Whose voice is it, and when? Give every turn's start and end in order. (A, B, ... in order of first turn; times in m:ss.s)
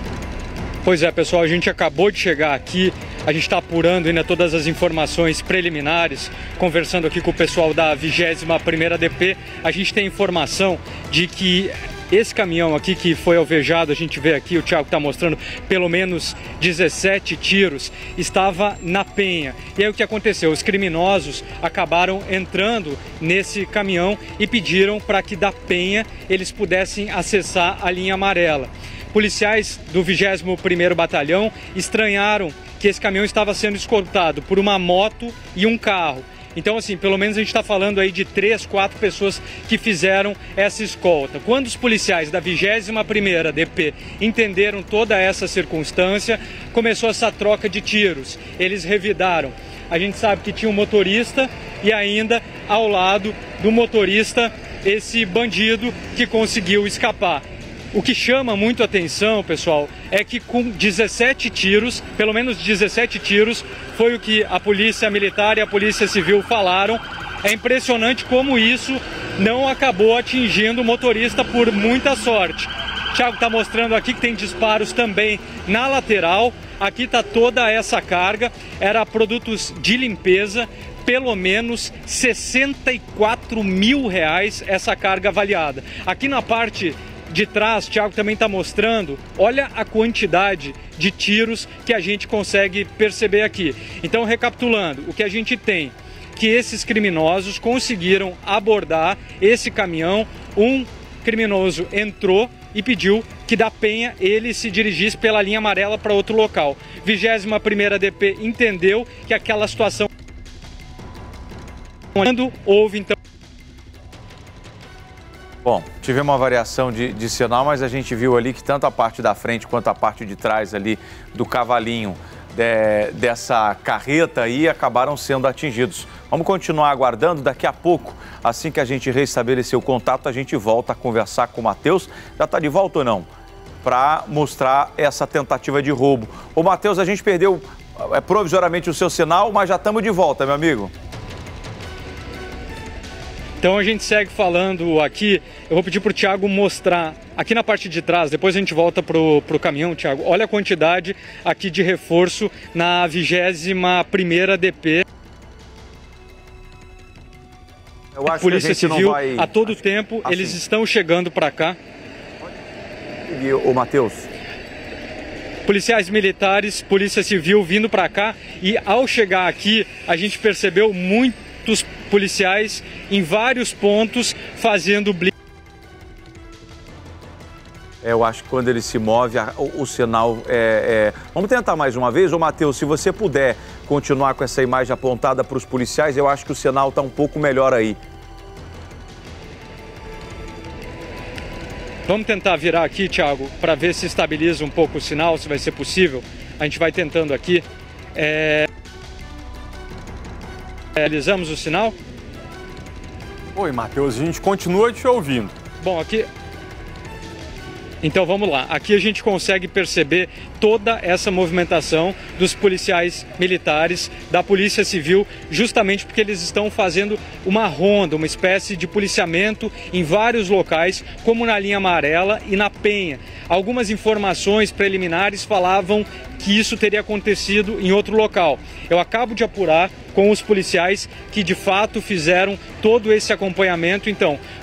0:00.8-1:50.1 A
1:52.1-1:53.1 A
1:55.6-2:13.3 B
2:13.8-2:20.9 B
2:23.6-2:35.0 A
2:38.1-2:40.6 B
2:38.3-2:41.8 A
2:43.3-2:44.3 B
2:45.6-2:55.3 A
2:58.0-3:08.0 B
3:12.1-3:18.7 A
3:21.0-3:22.0 A
3:23.5-3:25.5 C
3:25.8-3:26.3 A
3:28.0-3:54.4 A